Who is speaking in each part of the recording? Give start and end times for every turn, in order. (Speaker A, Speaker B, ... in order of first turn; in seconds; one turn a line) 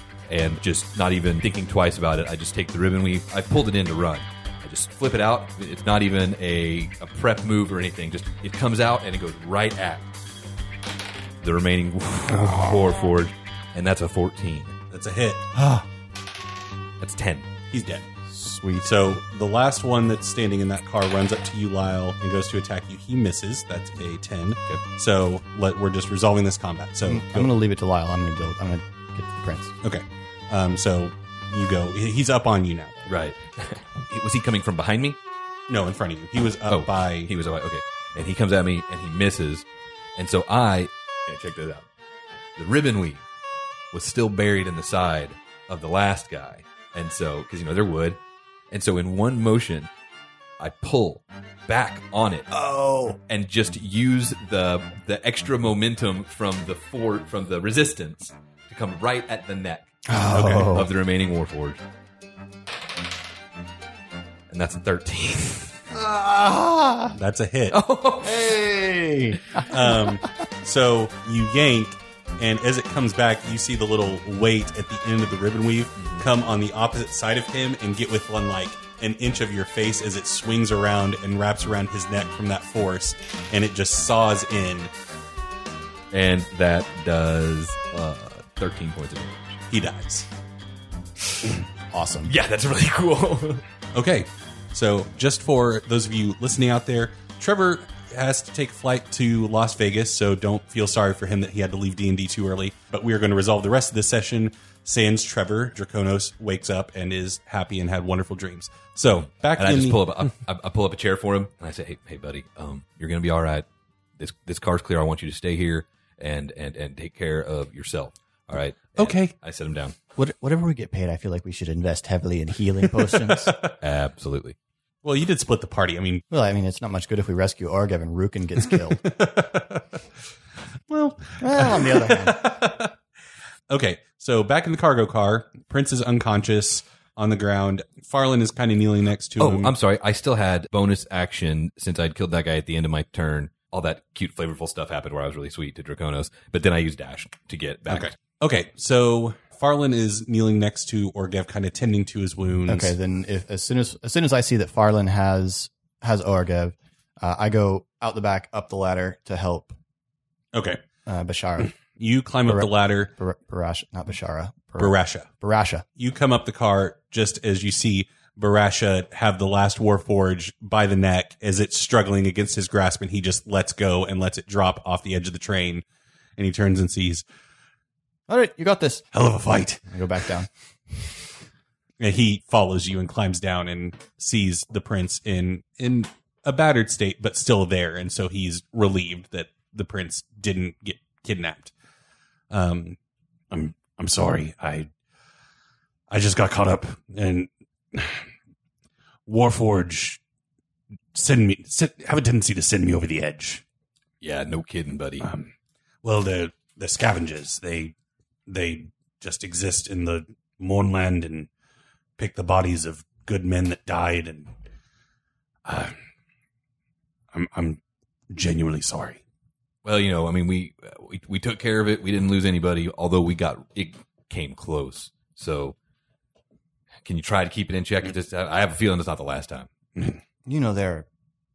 Speaker A: 0.3-10.1
Speaker A: 11.4-14.7
Speaker B: 14.9-15.8
Speaker A: 17.0-17.5
Speaker B: 17.7-18.1
Speaker C: 18.3-19.2
Speaker B: 18.8-27.5
Speaker C: 27.0-29.7
Speaker B: 29.8-33.1
Speaker A: 33.1-35.2
Speaker B: 35.7-37.3
Speaker A: 36.7-39.6
Speaker A: 40.1-41.8
Speaker A: 42.5-43.2
Speaker A: 43.9-48.2
Speaker A: 48.7-49.9
Speaker A: 50.6-52.5
Speaker C: 52.5-53.2
Speaker A: 53.3-61.8
Speaker C: 60.1-60.9
Speaker B: 60.3-60.9
Speaker A: 64.5-65.8
Speaker C: 65.9-67.1
Speaker B: 67.1-67.8
Speaker A: 67.7-68.5
Speaker C: 68.2-70.2
Speaker B: 69.7-84.9
Speaker A: 76.0-76.2
Speaker A: 86.1-89.6
Speaker B: 89.7-90.3
Speaker C: 91.9-92.3
Speaker A: 92.3-93.6
Speaker B: 93.9-110.0
Speaker A: 109.5-113.7
Speaker A: 114.2-119.9
Speaker B: 119.0-119.3
Speaker C: 120.2-123.6
Speaker B: 123.4-123.7
Speaker A: 123.8-124.5
Speaker B: 125.0-126.2
Speaker C: 126.3-129.0
Speaker B: 129.1-130.0
Speaker B: 130.9-132.9
Speaker C: 131.4-132.5
Speaker B: 133.7-139.7
Speaker A: 139.4-148.1
Speaker B: 147.9-152.9
Speaker C: 152.7-159.7
Speaker B: 160.5-160.8
Speaker C: 161.1-161.7
Speaker B: 162.0-163.1
Speaker C: 162.4-165.8
Speaker B: 164.8-165.3
Speaker B: 165.9-175.8
Speaker B: 176.4-177.2
Speaker C: 178.3-179.1
Speaker B: 179.1-179.9
Speaker C: 179.9-180.5
Speaker B: 182.0-191.7
Speaker B: 192.5-193.0
Speaker B: 193.5-194.9
Speaker B: 196.1-198.2
Speaker B: 199.2-200.2
Speaker B: 201.1-203.6
Speaker A: 204.2-205.3
Speaker B: 205.2-205.5
Speaker B: 206.0-207.9
Speaker B: 208.5-211.5
Speaker B: 212.2-214.5
Speaker B: 215.6-215.9
Speaker B: 217.3-217.8
Speaker B: 218.3-219.2
Speaker A: 219.8-225.8
Speaker A: 227.0-229.7
Speaker C: 230.4-231.1